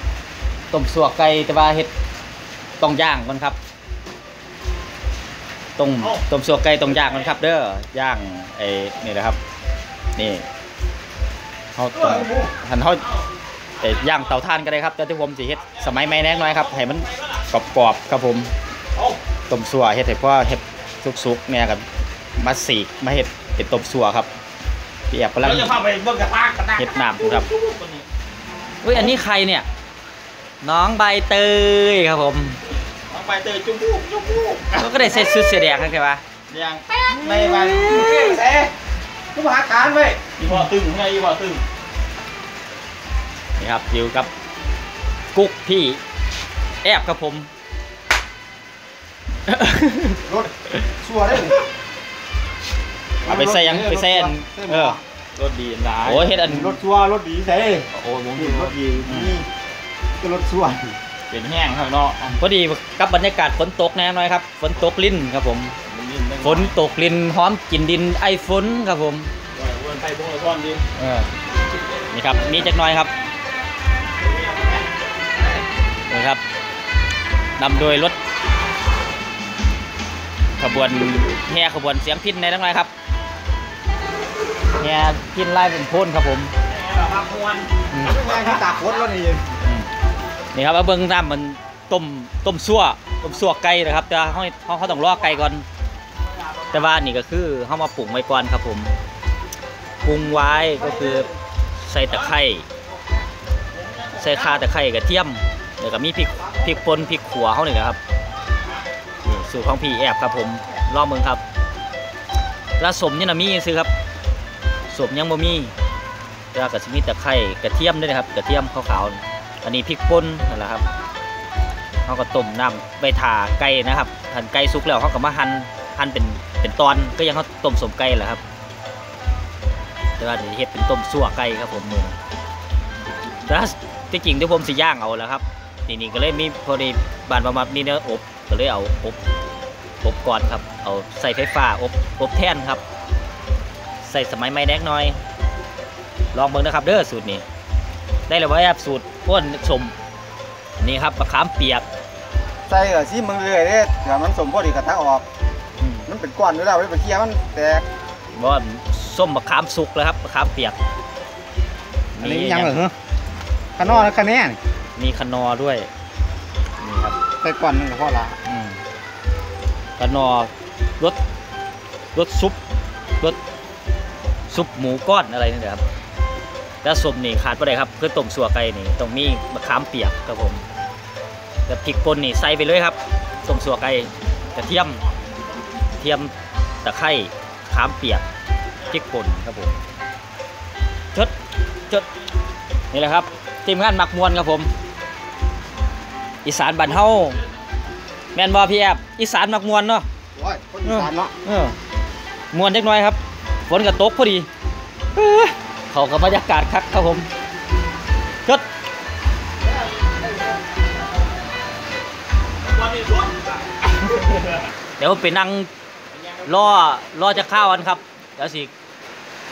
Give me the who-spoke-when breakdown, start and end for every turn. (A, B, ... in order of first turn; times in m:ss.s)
0:00.7-0:01.9 A
0:02.8-0:03.6 A
0:05.8-0:09.4 A
0:06.8-0:07.4 B
0:10.2-0:10.5 A
0:11.8-0:13.0 A
0:11.9-0:12.5 C
0:13.8-0:14.3 B
0:13.8-0:18.5 A
0:15.5-0:17.5 B
0:19.5-0:21.8 A
0:22.4-0:24.3 A
0:25.1-0:25.7 A
0:25.4-0:28.0 B
0:26.8-0:27.5 A
0:28.8-0:29.6 A
0:30.6-0:32.6 A
0:33.1-0:35.4 B
0:34.7-0:36.2 A
0:36.5-0:38.4 B
0:37.1-0:38.7 C
0:37.4-0:38.3 A
0:39.3-0:40.2 C
0:40.4-0:41.6 B
0:43.6-0:44.3 A
0:45.3-0:46.0 A
0:46.8-0:47.5 A
0:49.5-0:50.2 A
0:50.2-0:51.6 C
0:53.2-0:55.0 C
0:53.2-0:55.0 A
0:55.4-0:56.4 B
0:56.0-0:56.8 A
0:56.4-0:59.5 C
0:57.9-0:58.8 B
0:59.1-0:59.3 A
1:00.2-1:01.0 C
1:01.3-1:02.4 B
1:02.4-1:05.7 A
1:05.8-1:06.8 B
1:06.4-1:09.3 A
1:09.5-1:10.8 B
1:11.0-1:11.3 A
1:12.1-1:13.1 A
1:14.2-1:15.6 B
1:16.1-1:16.4 A
1:17.6-1:18.2 A
1:20.6-1:22.9 A
1:24.8-1:26.5 A
1:26.6-1:28.7 B
1:27.9-1:28.2 A
1:28.0-1:29.4 C
1:29.6-1:29.9 A
1:30.5-1:35.6 A
1:33.5-1:33.8 B
1:34.9-1:35.4 B
1:36.2-1:36.9 B
1:36.7-1:38.9 A
1:40.0-1:41.3 A
1:40.3-1:41.3 C
1:41.8-1:42.6 A
1:42.9-1:43.2 C
1:43.7-1:44.7 B
1:44.2-1:48.0 A
1:46.4-1:46.8 C
1:49.2-1:51.4 A
1:52.8-1:53.9 A
1:54.9-1:55.7 A
1:56.5-2:00.8 A
2:02.0-2:08.4 A
2:10.2-2:12.2 A
2:13.4-2:19.2 A
2:20.0-2:22.8 A
2:24.0-2:25.2 A
2:26.3-2:27.4 A
2:28.3-2:29.9 A
2:30.8-2:31.8 A
2:32.7-2:35.2 C
2:35.8-2:36.1 A
2:36.1-2:37.8 C
2:38.3-2:40.8 A
2:42.2-2:42.8 A
2:42.2-2:42.9 C
2:43.8-2:44.6 C
2:43.8-2:44.1 A
2:45.0-2:45.9 A
2:46.8-2:47.2 A
2:47.4-2:48.4 C
2:48.4-2:48.8 A
2:50.0-2:51.2 A
2:52.1-2:52.6 A
2:54.5-2:55.8 A
2:56.8-3:00.6 A
3:01.7-3:05.0 A
3:04.5-3:05.4 B
3:06.0-3:06.3 A
3:06.8-3:08.2 A
3:08.9-3:09.8 A
3:12.9-3:14.7 A
3:16.4-3:17.4 A
3:16.9-3:17.5 B
3:18.3-3:20.0 A
3:20.3-3:21.3 C
3:20.8-3:21.7 A
3:22.5-3:24.5 A
3:25.1-3:27.3 A
3:29.6-3:31.0 C
3:32.6-3:33.4 B
3:35.0-3:35.7 A
3:36.1-3:36.8 B
3:36.4-3:38.7 A